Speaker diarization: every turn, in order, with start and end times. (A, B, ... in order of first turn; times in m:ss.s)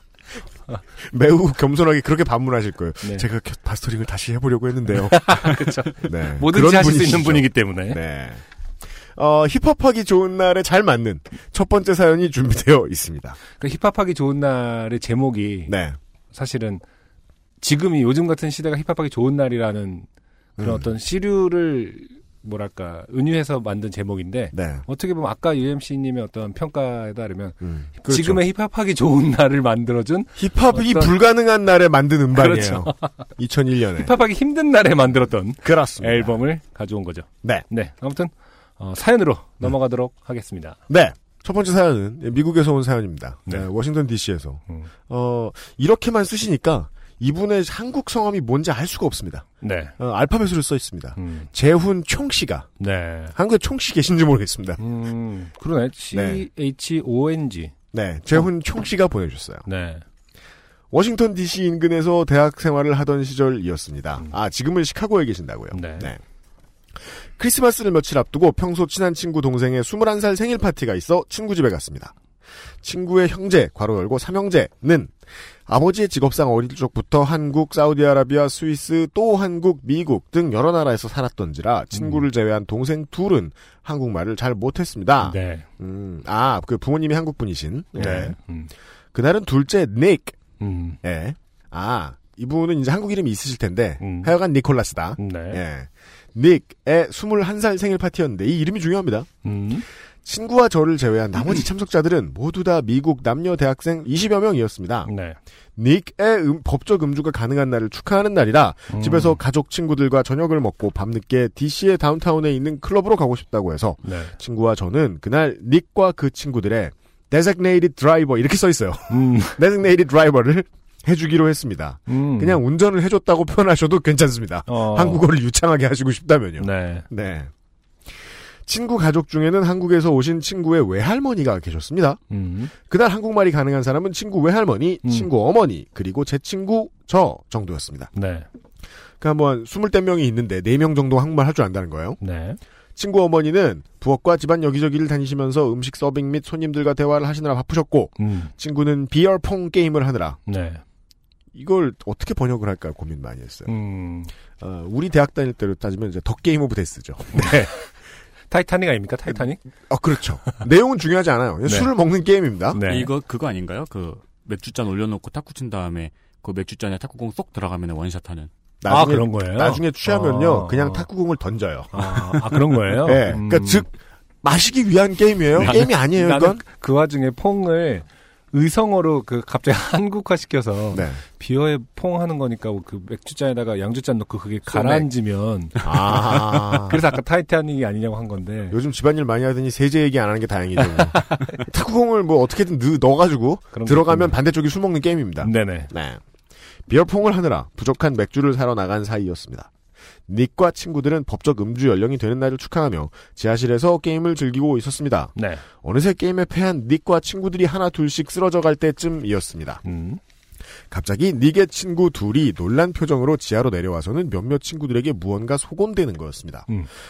0:01.0-0:08.4 A
0:05.1-0:08.0 B
0:09.2-0:13.4 A
0:13.6-0:15.7 B
0:15.7-0:16.0 A
0:16.3-0:16.8 B
0:17.6-0:20.1 B
0:20.6-0:20.9 A
0:20.6-0:31.1 B
0:24.5-0:24.8 A
0:27.6-0:28.4 A
0:30.4-0:34.1 A
0:32.4-0:33.2 B
0:34.0-0:40.8 B
0:35.6-0:36.4 A
0:40.9-0:49.5 A
0:49.6-0:50.0 B
0:50.0-0:52.7 A
0:51.2-0:51.5 B
0:52.8-0:53.4 B
0:53.3-0:54.8 A
0:54.8-0:57.8 B
0:56.1-0:56.4 A
0:57.9-0:59.6 A
0:59.7-1:00.0 B
1:00.9-1:06.2 A
1:05.7-1:06.1 B
1:07.0-1:12.1 A
1:12.8-1:28.4 A
1:21.9-1:22.2 B
1:25.2-1:25.7 B
1:28.0-1:28.7 B
1:29.1-1:30.4 A
1:30.6-1:31.0 B
1:31.0-1:39.3 A
1:34.0-1:34.4 B
1:35.2-1:35.6 B
1:39.4-1:39.8 B
1:40.2-1:45.1 A
1:45.0-1:45.4 B
1:45.8-2:07.5 A
1:48.9-1:49.4 B
1:54.0-1:54.3 B
1:59.1-1:59.6 B
2:02.1-2:02.6 B
2:04.7-2:05.3 B
2:06.6-2:07.1 B
2:08.7-2:12.2 A
2:12.3-2:12.7 B
2:12.8-2:18.1 A
2:15.0-2:15.3 B
2:18.2-2:18.5 B
2:19.2-2:22.2 A
2:22.2-2:22.6 B
2:23.0-2:30.4 A
2:28.2-2:28.5 B
2:30.5-2:30.8 B
2:31.5-2:33.7 A
2:33.7-2:34.3 B
2:34.6-2:37.7 A
2:37.3-2:37.9 B
2:38.5-2:39.6 B
2:39.9-2:42.8 A
2:42.7-2:43.1 B
2:42.8-2:48.5 C
2:48.8-2:56.6 A
2:48.9-2:51.1 B
2:51.9-2:53.9 B
2:55.6-3:08.8 B
3:00.9-3:01.2 A
3:04.7-3:05.0 A
3:05.8-3:07.0 A
3:08.7-3:16.2 A
3:13.7-3:14.4 B
3:15.4-3:15.9 B
3:16.9-3:19.7 A
3:20.3-3:29.8 A
3:25.4-3:25.6 B
3:29.8-3:30.2 B
3:30.9-3:36.7 A